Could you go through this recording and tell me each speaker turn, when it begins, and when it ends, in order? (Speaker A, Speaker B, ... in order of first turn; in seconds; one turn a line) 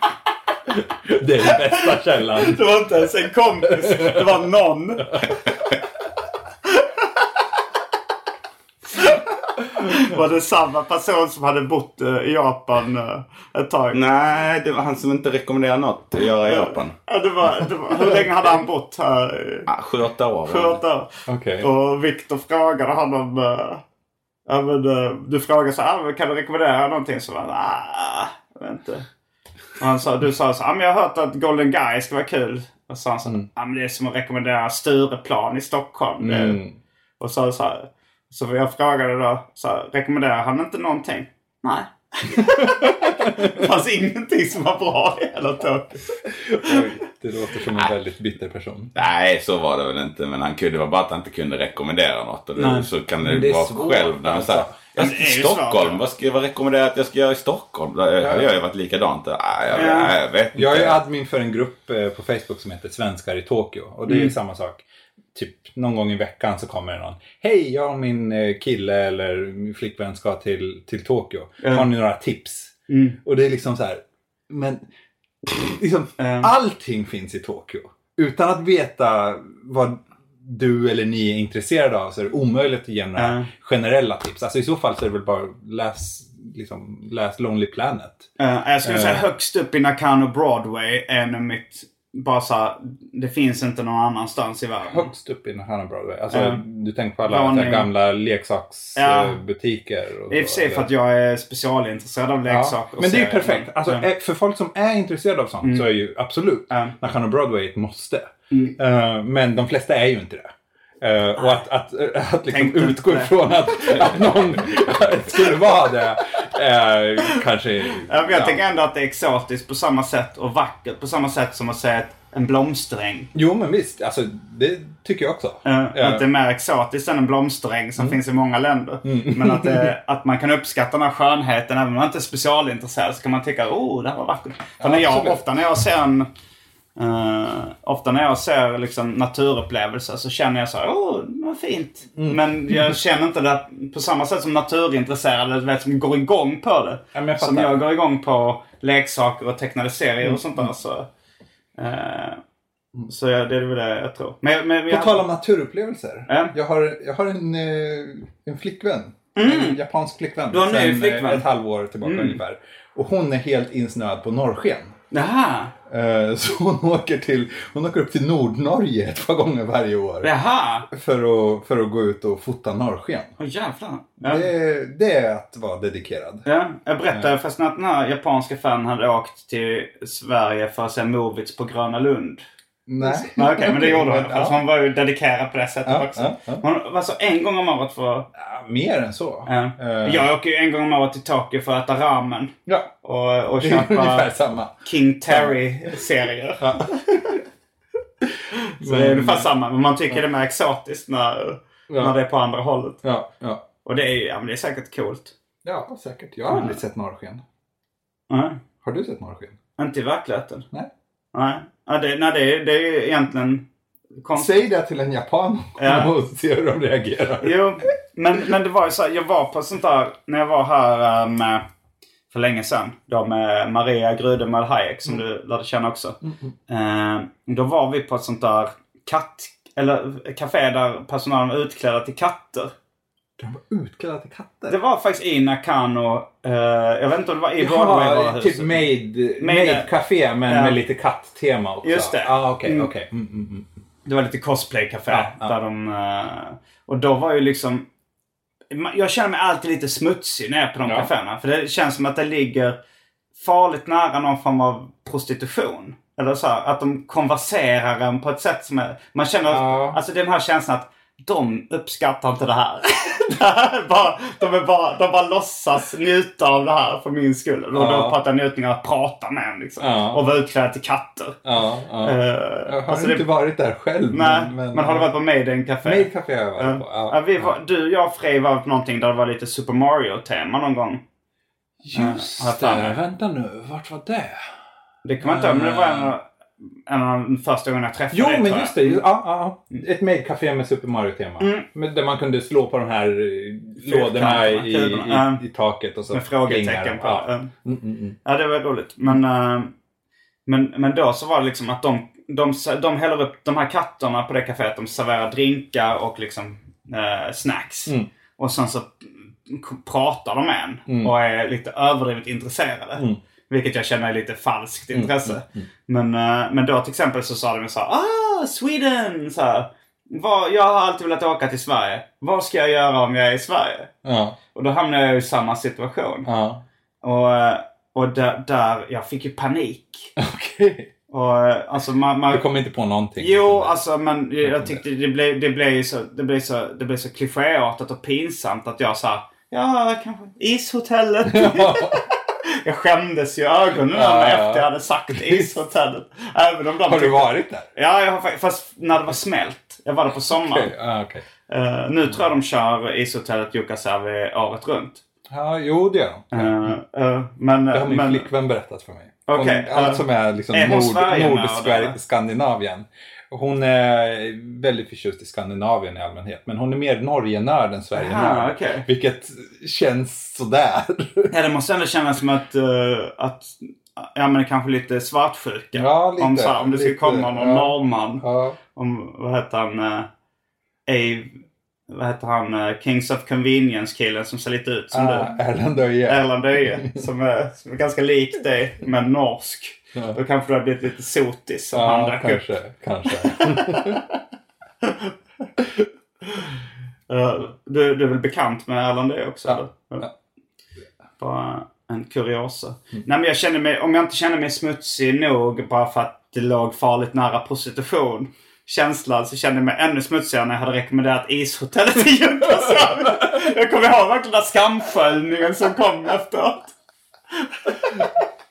Speaker A: 0.7-2.8
Speaker B: 1.6-5.3
Speaker A: 3.7-4.4
Speaker B: 9.8-14.0
Speaker C: 13.9-16.9
Speaker B: 16.4-19.7
Speaker C: 19.7-20.8
Speaker B: 20.4-23.8
Speaker A: 21.3-21.7
Speaker B: 24.5-29.0
Speaker B: 29.8-36.6
Speaker A: 36.2-36.8
Speaker B: 37.2-46.0
Speaker A: 42.8-43.6
Speaker A: 46.2-48.9
Speaker C: 48.9-61.0
Speaker B: 52.6-52.9
Speaker A: 53.2-54.9
Speaker B: 55.0-56.0
Speaker A: 58.2-58.5
Speaker B: 59.7-60.1
Speaker A: 60.5-74.8
Speaker B: 64.0-64.3
Speaker B: 71.6-71.9
Speaker B: 72.9-73.2
Speaker A: 75.4-88.3
Speaker B: 76.2-76.5
Speaker B: 83.2-83.5
Speaker B: 88.4-95.1
Speaker A: 88.8-89.3
Speaker A: 94.8-100.9
Speaker B: 96.3-96.6
Speaker B: 97.2-97.9
Speaker B: 98.9-99.4
Speaker B: 100.3-104.0
Speaker A: 102.5-118.6
Speaker B: 105.6-105.9
Speaker B: 106.7-106.9
Speaker B: 108.5-108.8
Speaker B: 111.4-111.6
Speaker B: 112.5-114.4
Speaker B: 118.0-123.3
Speaker A: 123.3-126.2
Speaker B: 125.6-136.3
Speaker A: 129.0-129.9
Speaker A: 134.8-135.4
Speaker B: 136.9-151.1
Speaker A: 142.2-143.0
Speaker A: 147.1-147.8
Speaker A: 150.2-150.7
Speaker B: 151.8-152.4
Speaker B: 153.1-155.2
Speaker A: 154.9-164.9
Speaker B: 156.3-156.5
Speaker B: 159.3-159.8
Speaker B: 160.5-161.4
Speaker B: 162.0-162.4
Speaker B: 165.1-165.7
Speaker A: 165.9-170.3
Speaker B: 170.2-170.9
Speaker A: 170.9-173.3
Speaker B: 173.4-174.5
Speaker A: 174.2-176.4
Speaker B: 176.4-182.4
Speaker A: 182.9-184.6
Speaker B: 183.0-188.3
Speaker A: 185.8-186.6
Speaker A: 188.3-190.3
Speaker B: 189.4-194.3
Speaker A: 192.7-192.9
Speaker A: 193.6-194.7
Speaker B: 194.8-197.0
Speaker A: 195.2-196.0
Speaker A: 196.6-197.4
Speaker A: 198.8-199.5
Speaker B: 198.8-203.0
Speaker A: 201.9-202.2
Speaker A: 203.0-203.6
Speaker B: 203.8-205.3
Speaker A: 205.6-207.4
Speaker B: 206.5-206.8
Speaker B: 208.3-208.6
Speaker A: 208.8-209.6
Speaker B: 209.8-210.7
Speaker B: 211.3-213.7
Speaker B: 214.2-214.6
Speaker A: 214.3-217.9
Speaker B: 215.8-216.1
Speaker B: 217.4-221.6
Speaker B: 222.3-232.7
Speaker A: 226.2-226.6
Speaker A: 233.4-234.8
Speaker B: 234.7-239.9
Speaker A: 237.6-243.7
Speaker B: 240.5-240.8
Speaker B: 241.8-242.9
Speaker B: 244.0-247.8
Speaker A: 245.1-245.6
Speaker B: 248.7-252.8
Speaker A: 250.8-251.1
Speaker B: 253.3-271.4
Speaker A: 259.5-260.0
Speaker A: 267.7-268.2
Speaker A: 269.8-270.3
Speaker A: 271.4-275.1
Speaker B: 272.0-273.3
Speaker B: 274.1-281.0
Speaker A: 275.8-277.6
Speaker A: 281.8-284.5
Speaker B: 281.9-283.0
Speaker B: 285.0-286.2
Speaker A: 285.2-286.1
Speaker B: 286.9-289.0
Speaker A: 288.1-298.2
Speaker B: 291.4-291.7
Speaker B: 293.8-295.4
Speaker B: 296.1-297.5
Speaker B: 298.2-299.7
Speaker B: 300.4-323.9
Speaker A: 310.9-311.1
Speaker A: 314.9-315.7
Speaker A: 324.0-324.4
Speaker B: 324.5-326.3
Speaker A: 326.2-326.6
Speaker B: 327.0-330.1
Speaker A: 330.2-330.9
Speaker B: 331.1-332.4
Speaker A: 332.3-333.8
Speaker B: 333.2-350.7
Speaker A: 334.4-334.8
Speaker A: 341.3-342.1
Speaker A: 343.9-345.6
Speaker A: 346.8-347.7
Speaker A: 350.3-351.2
Speaker B: 351.5-355.0
Speaker A: 355.3-356.8
Speaker B: 356.3-358.3
Speaker A: 357.7-371.3
Speaker B: 359.3-362.0
Speaker B: 367.9-368.9
Speaker B: 371.3-378.2
Speaker A: 375.7-378.6
Speaker B: 378.7-380.1
Speaker B: 380.9-385.3
Speaker A: 384.9-387.0
Speaker B: 386.1-392.4
Speaker A: 389.9-390.2
Speaker A: 391.7-394.0
Speaker B: 393.1-394.0
Speaker B: 394.8-395.1
Speaker B: 397.1-400.1
Speaker A: 399.4-400.1
Speaker B: 401.2-416.7
Speaker B: 417.4-418.1